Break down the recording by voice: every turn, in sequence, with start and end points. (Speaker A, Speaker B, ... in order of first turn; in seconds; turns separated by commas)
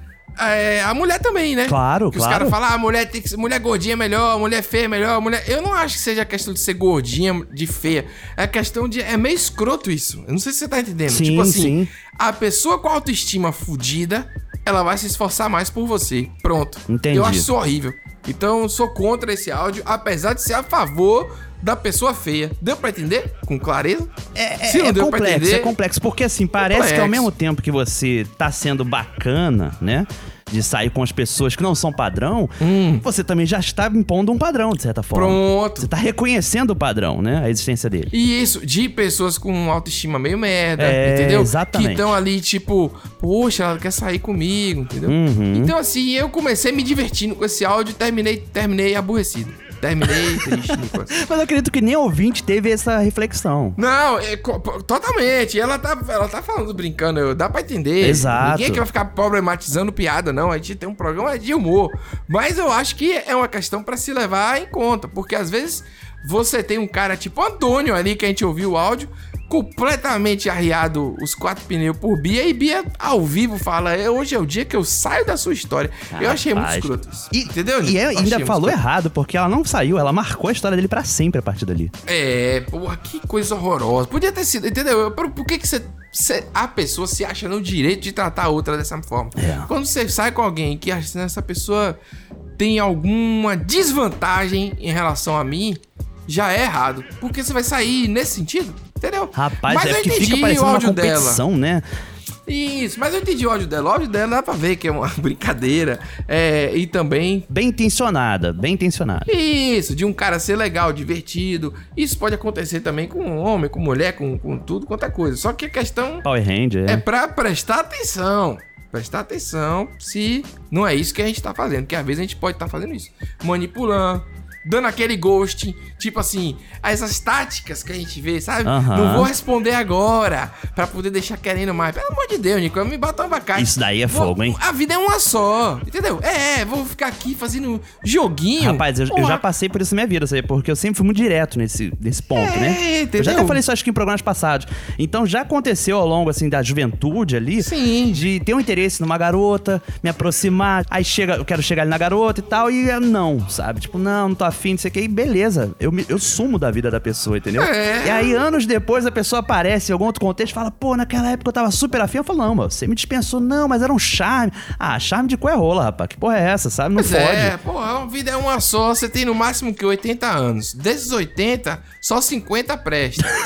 Speaker A: 0.4-24.1, Speaker B: 1.6-2.5, Speaker B: 11.1-11.9, Speaker B: 16.9-17.5, Speaker B: 24.3-38.1, Speaker A: 24.6-25.7, Speaker A: 26.6-27.3, Speaker A: 32.6-33.0, Speaker A: 35.1-35.9, Speaker A: 38.1-51.1, Speaker B: 40.8-42.1, Speaker B: 45.1-45.7, Speaker B: 50.1-50.5, Speaker B: 51.1-53.8, Speaker A: 53.8-78.8, Speaker B: 58.0-58.9, Speaker B: 76.1-81.9, Speaker A: 82.0-92.0, Speaker B: 89.4-89.7, Speaker A: 92.6-101.4, Speaker B: 99.3-101.8, Speaker A: 102.5-107.5, Speaker B: 107.5-109.3, Speaker A: 109.3-116.2, Speaker B: 116.2-117.0, Speaker A: 116.9-139.4, Speaker B: 128.6-129.3, Speaker B: 133.5-134.6, Speaker B: 138.6-167.5, Speaker A: 142.3-143.6, Speaker A: 147.6-148.2, Speaker A: 157.6-158.4, Speaker A: 166.9-173.3